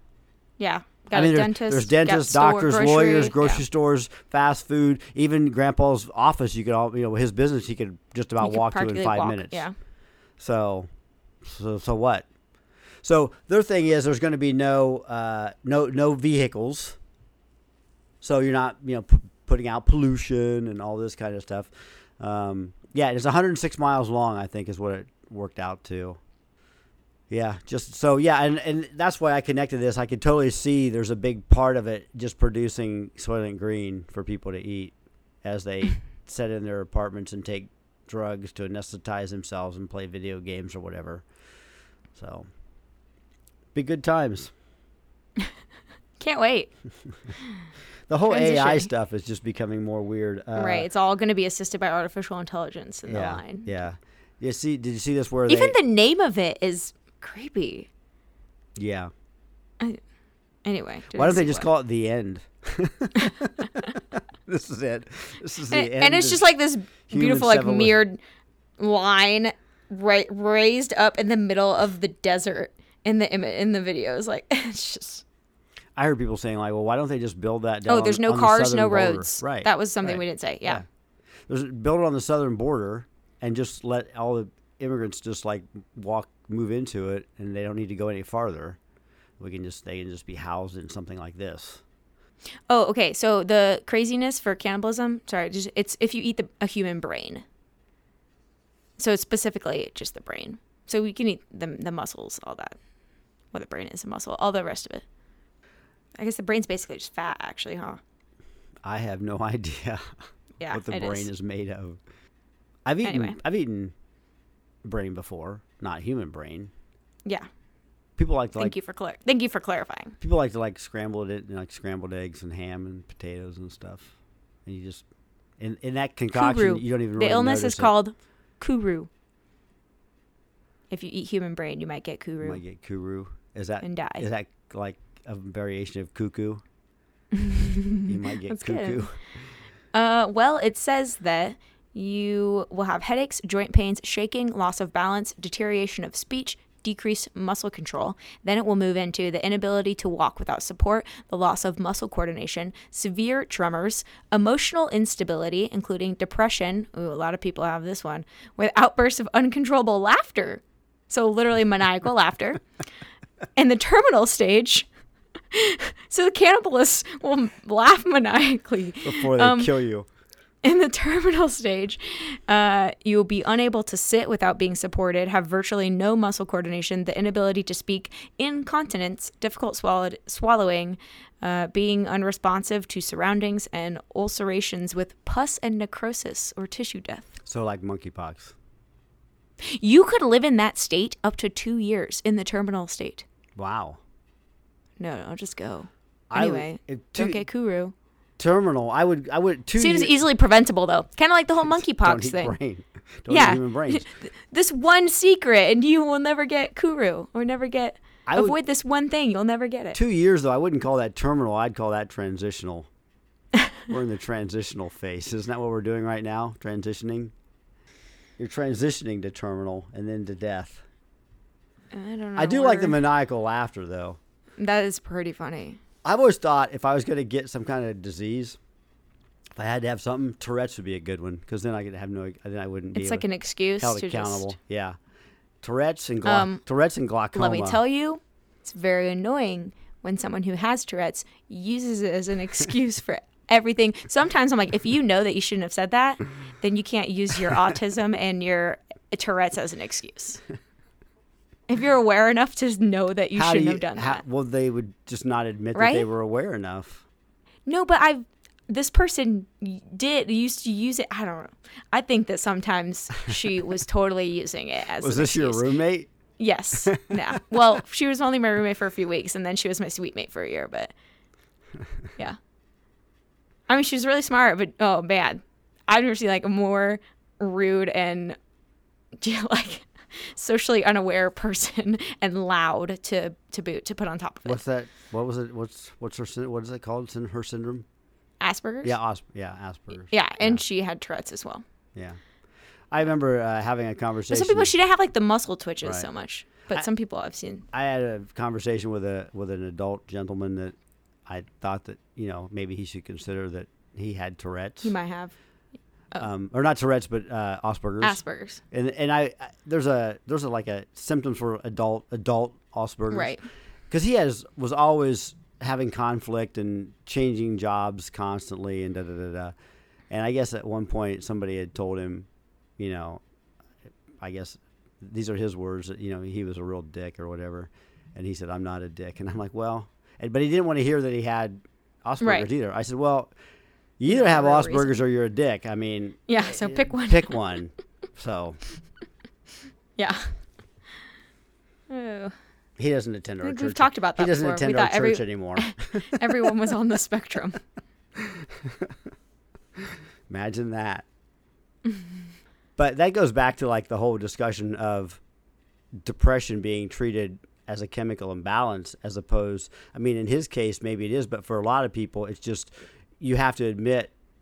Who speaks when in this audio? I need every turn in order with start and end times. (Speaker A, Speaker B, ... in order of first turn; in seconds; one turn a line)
Speaker A: 0.6-3.6
Speaker B: 1.1-9.6
Speaker A: 8.4-9.7
Speaker B: 10.4-10.9
Speaker B: 11.4-12.3
Speaker B: 13.0-17.0
Speaker B: 18.2-26.2
Speaker B: 27.3-41.3
Speaker B: 42.1-42.5
Speaker B: 43.8-44.5
Speaker A: 46.2-46.7
Speaker B: 48.1-50.9
Speaker A: 48.3-48.9
Speaker A: 50.5-53.7
Speaker B: 53.1-55.8
Speaker A: 55.5-57.9
Speaker B: 58.8-59.1
Speaker A: 60.6-61.7
Speaker B: 61.1-66.4
Speaker A: 65.7-68.2
Speaker B: 67.1-68.0
Speaker A: 68.8-75.2
Speaker B: 76.0-80.8
Speaker A: 77.9-80.8
Speaker B: 81.5-88.8
Speaker B: 89.4-91.8
Speaker A: 92.7-97.4
Speaker A: 99.0-102.8
Speaker A: 103.5-105.0
Speaker A: 106.2-108.0
Speaker B: 108.8-110.1
Speaker A: 110.6-111.3
Speaker B: 110.7-112.0
Speaker B: 112.9-113.9
Speaker A: 113.0-113.4
Speaker B: 114.8-116.7
Speaker B: 118.2-118.7
Speaker A: 118.6-120.2
Speaker B: 120.2-124.1
Speaker B: 124.7-125.0
Speaker B: 125.6-127.9
Speaker A: 126.3-129.1
Speaker A: 130.9-132.6
Speaker B: 132.4-136.6
Speaker A: 133.8-134.3
Speaker A: 137.3-139.1
Speaker B: 138.1-139.2
Speaker A: 139.9-162.6
Speaker A: 163.6-164.9
Speaker A: 165.5-169.7
Speaker B: 169.0-170.1
Speaker A: 170.6-187.3
Speaker B: 187.4-188.6
Speaker A: 189.6-193.2
Speaker B: 193.6-194.0
Speaker A: 195.0-197.9
Speaker B: 196.3-197.4
Speaker B: 198.4-200.2
Speaker A: 199.8-202.5
Speaker B: 201.7-204.1
Speaker A: 203.3-210.0
Speaker B: 208.3-208.6
Speaker B: 209.9-212.9
Speaker B: 213.9-217.3
Speaker B: 218.4-220.8
Speaker A: 221.9-223.0
Speaker B: 222.4-224.2
Speaker A: 224.6-225.8
Speaker B: 226.0-228.6
Speaker B: 229.6-233.2
Speaker A: 232.9-234.5
Speaker B: 233.8-234.9
Speaker B: 235.6-237.8
Speaker A: 236.2-236.6
Speaker A: 237.3-250.4
Speaker A: 251.7-254.2
Speaker B: 253.4-257.1
Speaker A: 255.8-256.1
Speaker A: 257.7-265.6
Speaker B: 265.0-266.1
Speaker A: 266.4-270.9
Speaker B: 266.8-267.4
Speaker A: 273.7-278.4
Speaker A: 279.2-284.6
Speaker B: 284.4-287.9
Speaker A: 288.4-288.9
Speaker B: 288.8-290.6
Speaker A: 290.1-291.6
Speaker B: 292.9-294.7
Speaker A: 294.3-297.6
Speaker B: 297.7-300.8
Speaker B: 301.3-304.9
Speaker A: 304.8-305.4
Speaker B: 306.2-313.4
Speaker A: 308.0-308.6
Speaker A: 313.1-313.4
Speaker B: 313.9-319.5
Speaker B: 320.1-322.3
Speaker B: 322.8-323.2
Speaker B: 324.2-333.3
Speaker A: 332.2-332.5
Speaker B: 334.0-338.6
Speaker A: 334.1-334.9
Speaker A: 336.3-337.3
Speaker A: 340.0-340.4
Speaker A: 341.9-342.3
Speaker B: 342.8-346.2
Speaker A: 343.4-347.6
Speaker B: 348.3-348.9
Speaker B: 350.3-351.1
Speaker B: 352.8-355.2
Speaker B: 356.0-364.1